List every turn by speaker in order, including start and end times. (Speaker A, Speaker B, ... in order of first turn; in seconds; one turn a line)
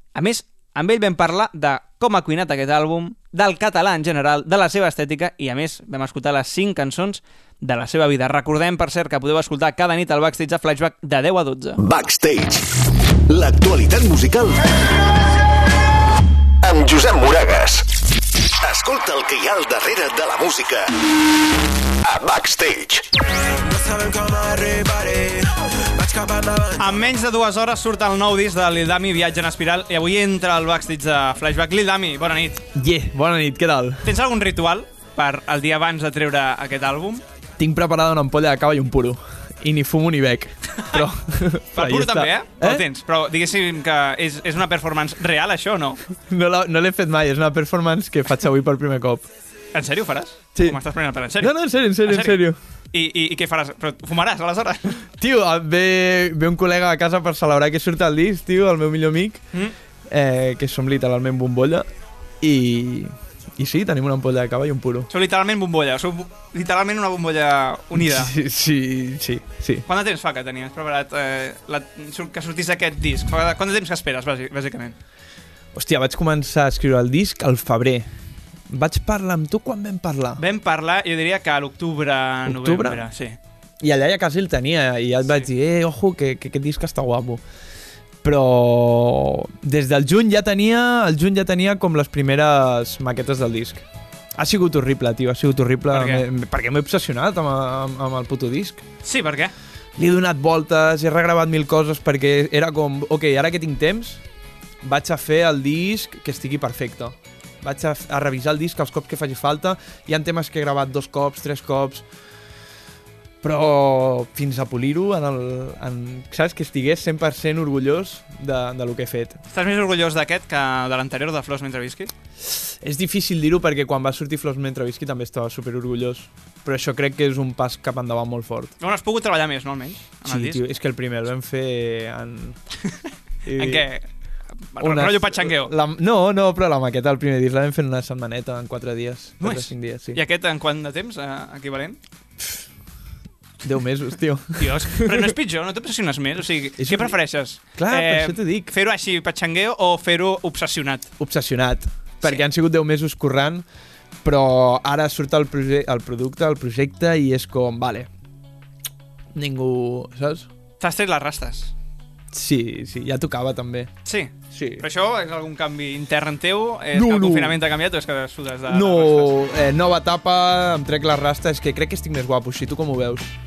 Speaker A: 0.1-11.8
Speaker B: 11.8-12.7
Speaker B: 13.3-14.8
Speaker B: 16.6-17.9
Speaker B: 18.6-20.9
Speaker B: 22.0-23.1
Speaker C: 23.6-27.1
Speaker A: 26.8-32.6
Speaker D: 32.8-34.1
Speaker A: 34.0-37.2
Speaker D: 37.6-42.9
Speaker A: 41.7-46.0
Speaker D: 46.3-49.3
Speaker A: 49.7-55.0
Speaker D: 50.5-50.8
Speaker D: 51.3-52.6
Speaker D: 55.2-59.5
Speaker D: 60.1-61.9
Speaker D: 62.4-65.1
Speaker A: 65.1-68.3
Speaker D: 67.9-69.8
Speaker A: 69.9-75.0
Speaker D: 75.7-78.1
Speaker D: 78.7-80.4
Speaker A: 80.4-83.4
Speaker D: 82.5-83.0
Speaker D: 83.8-87.4
Speaker D: 88.2-93.9
Speaker D: 94.4-98.8
Speaker A: 95.9-96.2
Speaker A: 99.0-99.5
Speaker D: 100.0-104.2
Speaker D: 104.8-112.1
Speaker D: 113.4-119.4
Speaker A: 119.5-122.1
Speaker D: 122.8-128.8
Speaker A: 128.8-130.6
Speaker D: 130.2-132.6
Speaker D: 133.5-133.9
Speaker A: 133.6-135.7
Speaker D: 134.8-140.2
Speaker A: 139.4-142.0
Speaker D: 143.6-145.3
Speaker A: 144.6-151.1
Speaker D: 146.8-148.7
Speaker D: 151.2-153.7
Speaker D: 154.2-158.1
Speaker D: 159.3-160.5
Speaker A: 160.8-161.7
Speaker D: 162.3-163.9
Speaker A: 164.1-169.3
Speaker D: 164.5-164.9
Speaker D: 166.9-167.6
Speaker D: 168.7-173.3